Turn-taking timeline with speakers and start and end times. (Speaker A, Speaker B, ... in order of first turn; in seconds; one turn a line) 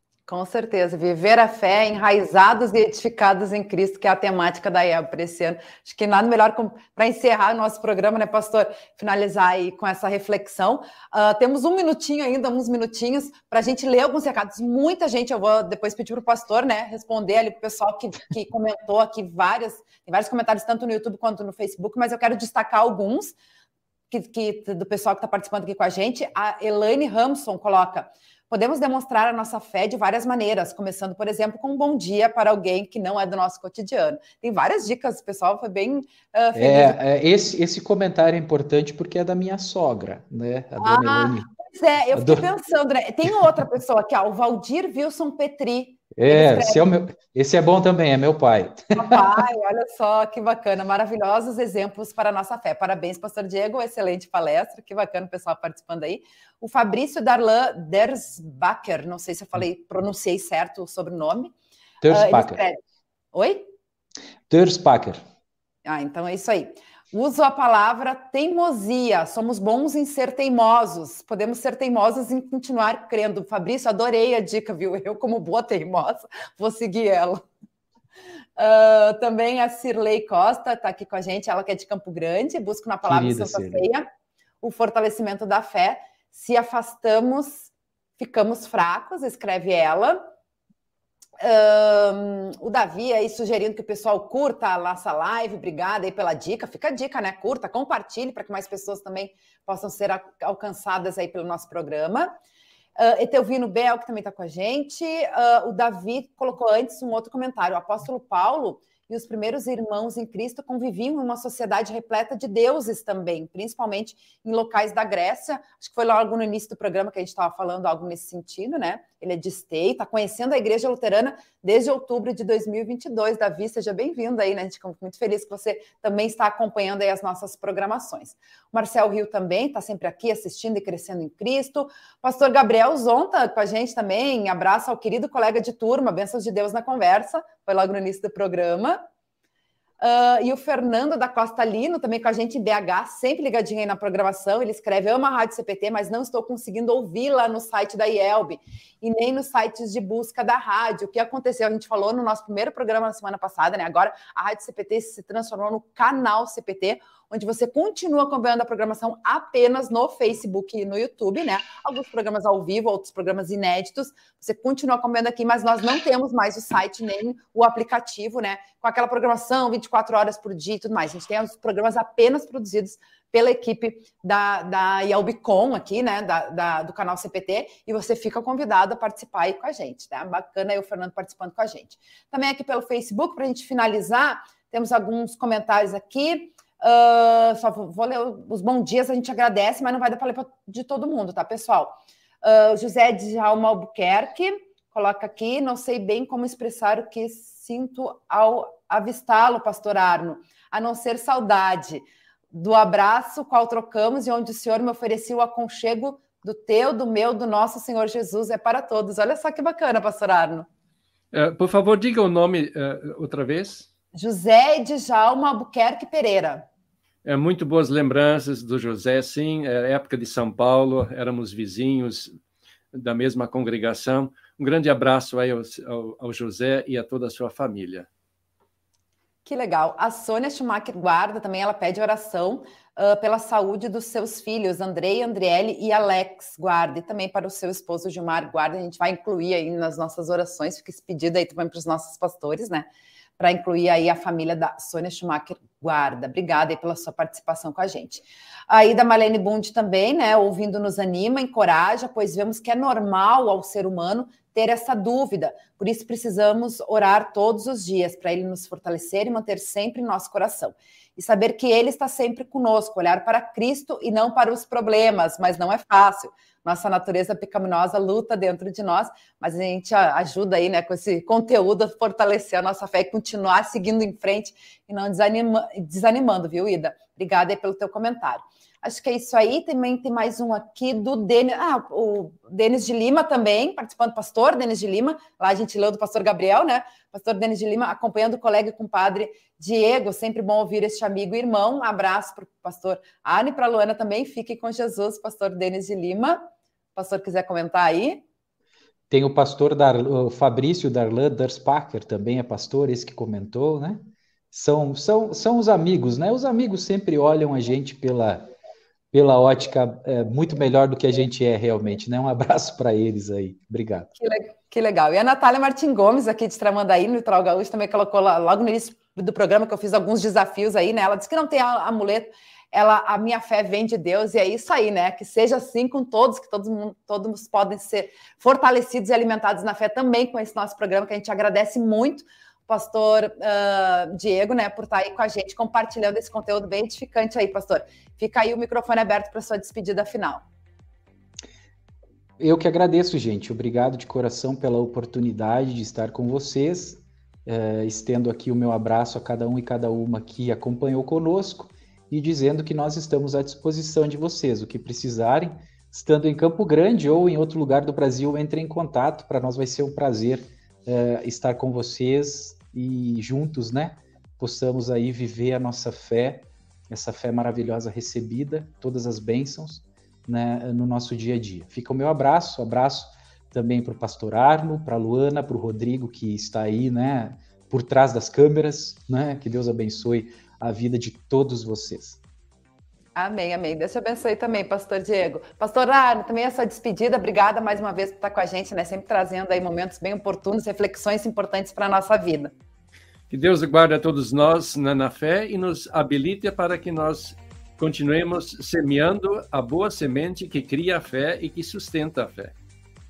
Speaker A: 0.3-23.4
Speaker A: 24.1-37.0
Speaker B: 36.5-41.5
Speaker A: 40.8-46.9
Speaker B: 42.1-42.5
Speaker B: 46.1-49.2
Speaker A: 49.0-61.5
Speaker B: 62.0-62.6
Speaker A: 62.1-62.8
Speaker A: 63.3-63.7
Speaker B: 64.5-65.2
Speaker A: 65.8-77.5
Speaker A: 78.6-84.0
Speaker B: 83.0-83.9
Speaker A: 84.6-90.2
Speaker A: 91.4-102.3
Speaker A: 103.0-139.0
Speaker A: 140.0-210.7
Speaker C: 211.3-213.9
Speaker A: 214.1-216.7
Speaker C: 217.2-222.3
Speaker C: 222.9-228.1
Speaker A: 229.4-242.9
Speaker A: 243.4-298.2
Speaker B: 299.1-308.5
Speaker B: 309.1-314.1
Speaker A: 314.2-340.4
Speaker B: 342.4-382.2
Speaker A: 383.2-392.5
Speaker C: 393.3-402.5